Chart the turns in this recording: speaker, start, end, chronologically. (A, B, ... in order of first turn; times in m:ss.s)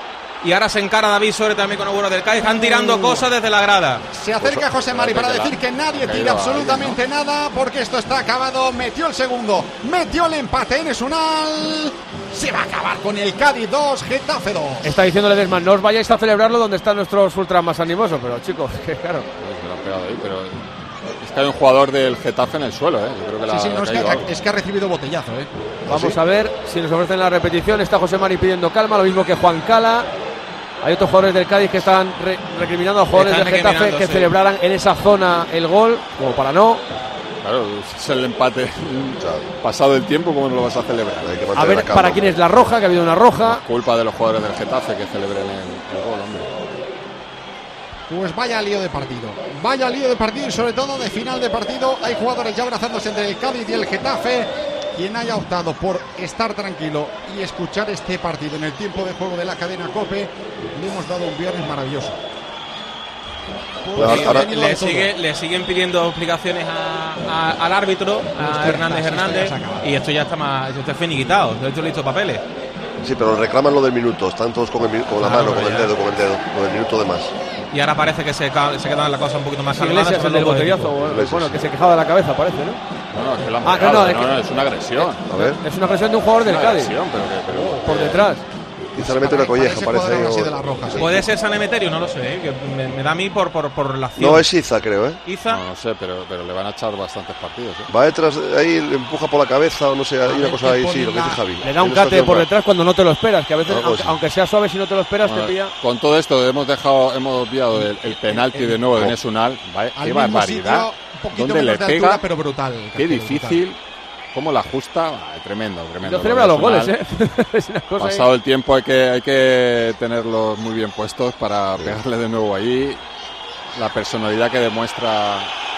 0:00.4-0:04.0 A
0:02.4-0:03.3 B
0:04.1-0:14.9 B
0:04.7-0:07.0 C
0:14.8-0:19.3 D
0:19.4-0:20.6 C
0:21.2-0:24.3 C
0:23.5-0:25.5 B
0:25.9-0:26.2 E
0:25.9-0:30.1 D
0:30.8-0:36.8 D
0:33.1-0:34.3 A
0:37.4-0:41.4 C
0:39.2-0:39.5 E
0:41.2-0:42.4 E
0:41.6-0:43.6 D
0:43.4-0:46.5 C
0:48.1-1:02.2 B
1:03.9-1:05.1 B
1:04.0-1:04.5 E
1:04.0-1:12.4 A
1:08.4-1:10.0 B
1:13.0-1:17.3 E
1:15.2-1:15.9 A
1:17.7-1:20.9 A
1:19.8-1:22.8 D
1:21.0-1:21.6 E
1:23.1-1:25.2 C
1:23.6-1:24.4 D
1:25.0-1:26.9 D
1:25.3-1:25.6 E
1:26.4-1:28.3 C
1:27.6-1:28.4 D
1:28.9-1:31.2 E
1:29.0-1:31.2 B
1:31.0-1:34.5 A
1:34.2-1:35.2 E
1:35.2-1:35.6 A
1:35.5-1:37.9 C
1:37.9-1:42.5 E
1:40.2-1:41.4 B
1:41.6-1:45.7 D
1:43.6-1:44.1 E
1:45.2-1:52.3 C
1:48.2-1:48.8 B
1:50.0-1:53.6 B
1:53.0-1:53.8 C
1:54.3-1:56.9 C
1:56.0-1:58.3 D
1:58.0-2:03.0 C
2:03.8-2:05.5 C